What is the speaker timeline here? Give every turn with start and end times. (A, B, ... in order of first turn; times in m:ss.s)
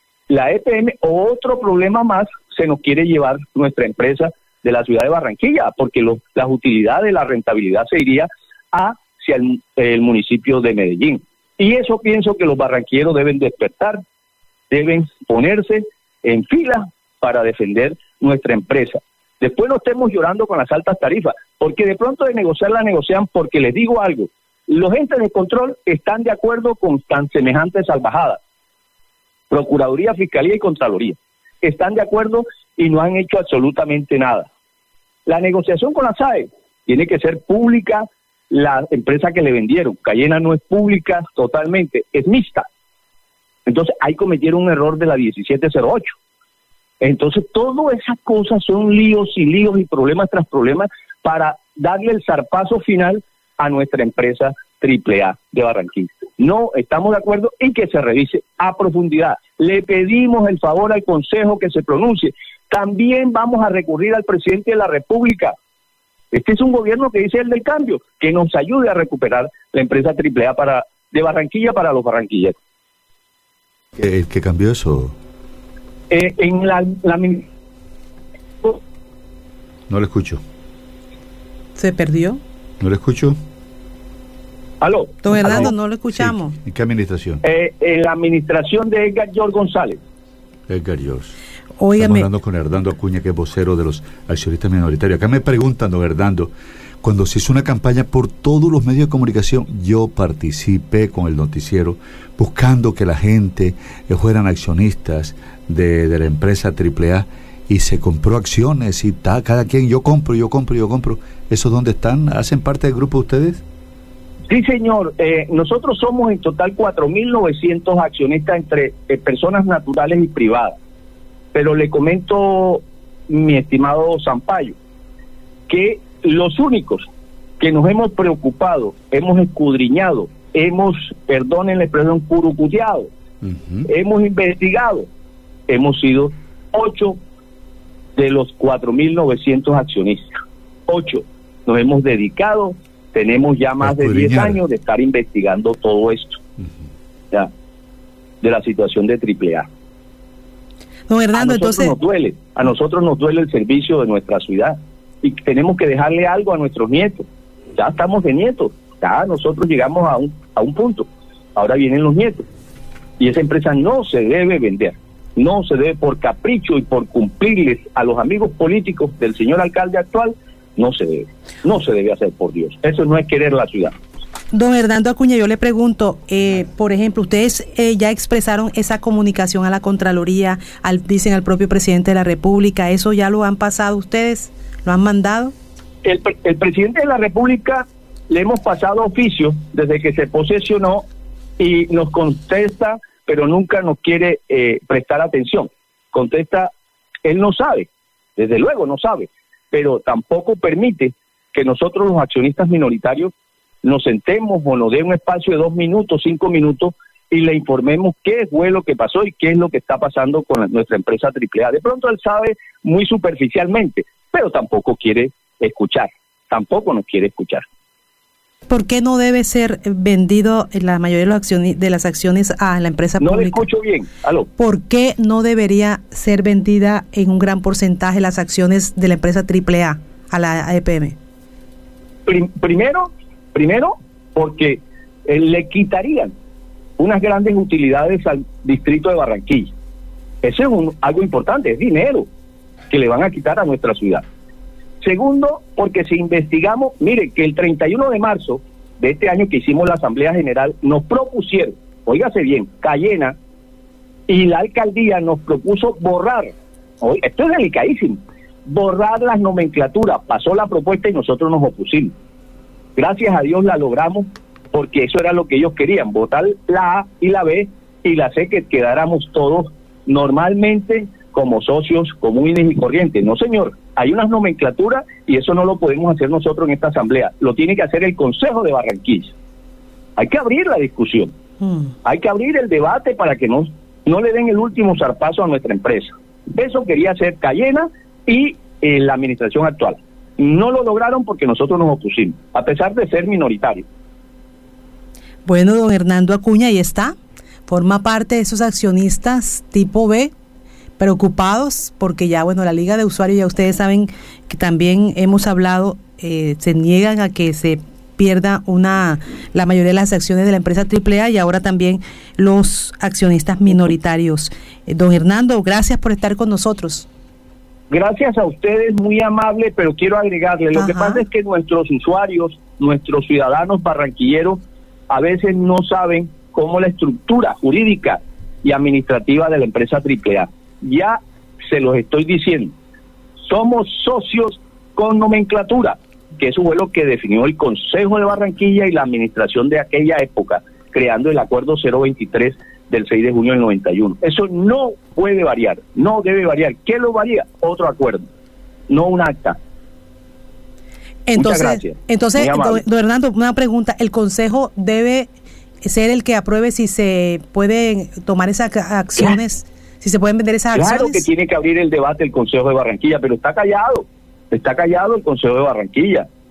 0:00.3-0:14.0 A
0:14.7-0:28.4 A
0:29.5-0:34.5 A
0:35.2-0:42.6 A
0:43.7-0:46.2 A
0:47.0-1:05.5 A
1:06.3-1:12.6 A
1:13.9-1:15.1 B
1:16.1-1:17.4 A
1:19.9-1:20.4 B
1:21.8-1:22.4 C
1:22.8-1:23.4 B
1:24.8-1:25.7 A
1:25.2-1:26.5 C
1:25.3-1:27.4 B
1:27.4-1:30.0 A
1:30.7-1:31.4 B
1:31.8-1:32.3 C
1:32.0-1:53.6 B
1:54.5-2:00.7 A
2:01.5-2:04.8 A
2:05.7-2:07.1 A
2:07.6-2:13.1 A
2:13.4-2:13.9 B
2:13.8-2:15.1 A
2:15.7-2:17.2 A
2:18.2-2:26.4 A
2:23.8-2:24.6 B
2:28.4-2:29.7 A
2:31.1-2:31.9 C
2:31.3-2:42.4 A
2:43.2-2:53.9 A
2:54.5-3:05.5 C
3:06.0-3:11.0 A
3:11.6-3:16.7 A
3:17.2-3:23.3 A
3:23.8-3:37.6 A
3:38.7-3:43.7 C
3:43.2-3:44.5 A
3:44.6-3:51.2 C
3:52.2-3:56.3 A
3:57.0-3:59.7 A
4:00.4-4:02.2 A
4:02.9-4:04.2 A
4:05.0-4:13.3 A
4:14.3-4:16.5 A
4:17.0-4:22.1 A
4:23.0-4:39.3 A
4:40.2-4:41.3 A
4:41.6-4:41.9 C
4:42.0-4:53.8 A
4:55.4-4:57.1 C
4:57.7-5:00.3 C
5:01.0-5:17.1 C
5:17.9-5:32.7 A
5:20.7-5:21.2 C
5:33.4-5:48.3 A
5:48.9-5:49.6 A
5:51.3-5:55.3 C
5:51.3-5:52.8 A
5:55.8-6:01.2 C
6:00.7-6:06.2 A